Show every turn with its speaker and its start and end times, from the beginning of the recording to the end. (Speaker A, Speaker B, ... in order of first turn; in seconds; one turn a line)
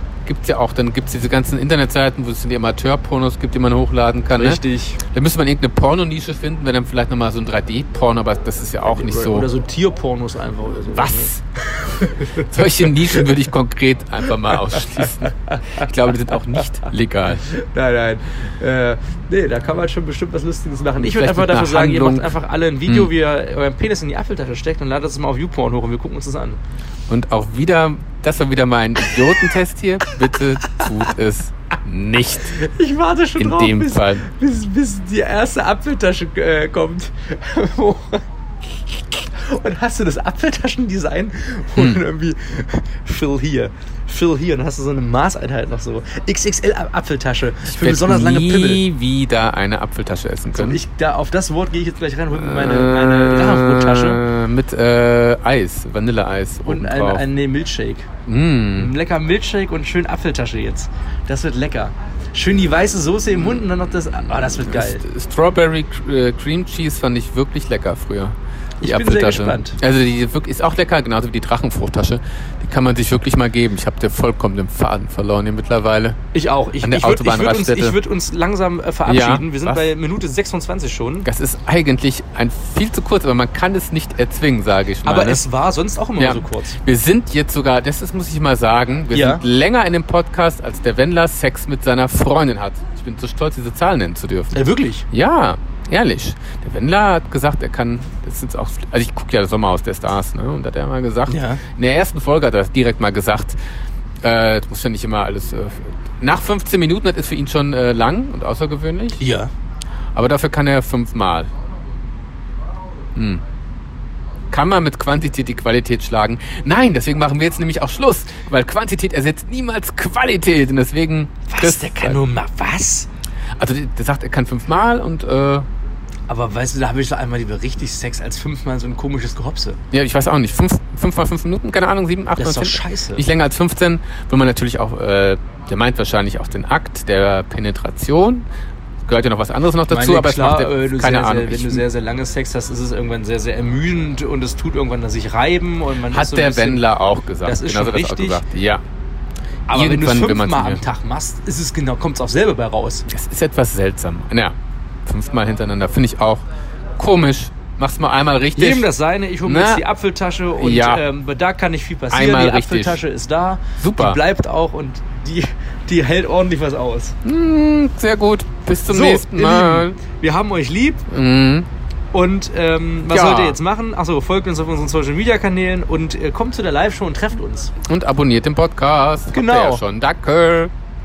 Speaker A: 0.2-9.5
Speaker B: 4.3-5.0
Speaker B: 8.9-13.3
Speaker A: 10.9-11.4
Speaker A: 12.2-17.4
Speaker B: 14.7-15.3
Speaker B: 17.4-26.6
Speaker A: 21.0-22.3
Speaker A: 27.1-32.6
Speaker B: 32.5-48.8
Speaker A: 33.4-34.3
Speaker A: 41.8-42.0
Speaker A: 47.7-50.8
Speaker B: 50.5-54.2
Speaker A: 52.3-57.2
Speaker B: 56.6-58.1
Speaker A: 58.3-58.9
Speaker B: 58.7-65.0
Speaker A: 64.3-76.2
Speaker B: 68.8-69.8
Speaker B: 76.3-81.3
Speaker A: 76.8-78.0
Speaker A: 79.0-79.8
Speaker A: 81.2-85.4
Speaker B: 85.0-86.8
Speaker A: 86.2-103.5
Speaker B: 89.1-89.4
Speaker B: 94.5-95.0
Speaker B: 101.3-101.6
Speaker A: 104.2-109.2
Speaker B: 109.2-109.5
Speaker A: 110.1-111.5
Speaker A: 113.2-113.4
Speaker A: 114.5-122.2
Speaker B: 121.5-123.1
Speaker A: 123.6-125.7
Speaker B: 126.3-129.8
Speaker A: 129.9-138.4
Speaker B: 132.3-133.2
Speaker A: 139.1-141.8
Speaker B: 139.9-146.9
Speaker A: 146.1-148.8
Speaker B: 147.4-148.4
Speaker B: 149.7-153.1
Speaker A: 149.7-150.8
Speaker A: 153.1-156.4
Speaker A: 157.0-158.9
Speaker B: 158.6-167.2
Speaker A: 159.4-159.8
Speaker A: 160.6-161.0
Speaker A: 162.1-163.0
Speaker A: 163.8-164.2
Speaker A: 167.2-170.0
Speaker B: 168.9-171.0
Speaker A: 171.1-171.7
Speaker B: 172.1-177.7
Speaker A: 173.1-173.6
Speaker A: 177.8-180.7
Speaker B: 179.3-179.8